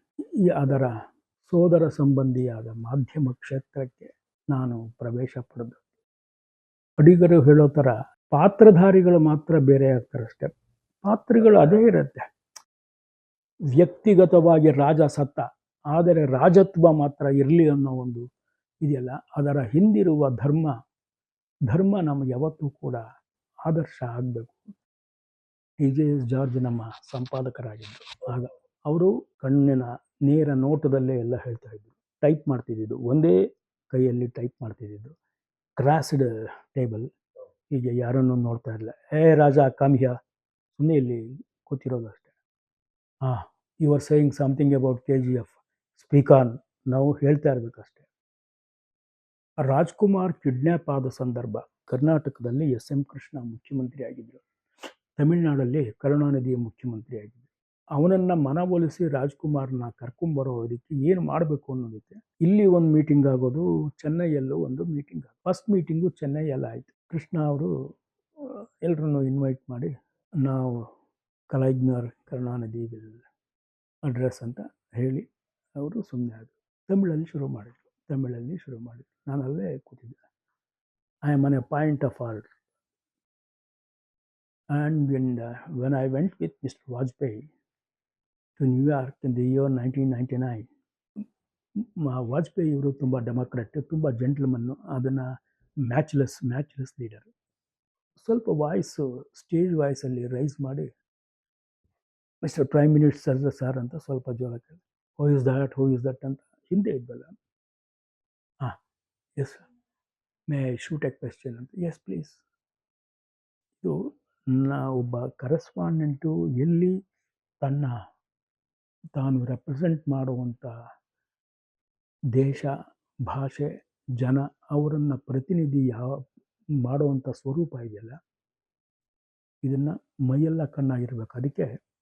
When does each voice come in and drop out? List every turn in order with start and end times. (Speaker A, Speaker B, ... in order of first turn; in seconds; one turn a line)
Speaker A: 0.5-0.9
Speaker A: 1.4-5.8
Speaker A: 7.0-10.5
Speaker A: 11.0-12.2
Speaker A: 13.8-18.2
Speaker A: 18.8-20.7
Speaker A: 21.7-23.0
Speaker A: 23.7-24.6
Speaker A: 25.8-33.3
Speaker A: 33.9-35.1
Speaker A: 35.8-37.1
Speaker A: 37.7-40.1
Speaker A: 40.7-42.3
Speaker A: 43.3-48.0
Speaker A: 49.7-54.4
Speaker A: 55.2-67.7
Speaker A: 68.8-69.9
Speaker A: 70.5-70.8
Speaker A: 71.5-73.2
Speaker A: 74.1-75.3
Speaker A: 75.8-80.2
Speaker A: 81.2-82.5
Speaker A: 84.8-87.5
Speaker A: 88.6-90.7
Speaker A: 92.0-95.3
Speaker A: 95.9-97.3
Speaker A: 98.2-100.9
Speaker A: 102.4-107.3
Speaker A: 109.4-109.6
Speaker A: 110.5-112.4
Speaker A: 114.5-116.9
Speaker A: 117.6-117.9
Speaker A: 119.2-120.7
Speaker A: 122.3-122.7
Speaker A: 123.3-123.7
Speaker A: 124.2-126.2
Speaker A: 126.8-128.2
Speaker A: 129.6-131.8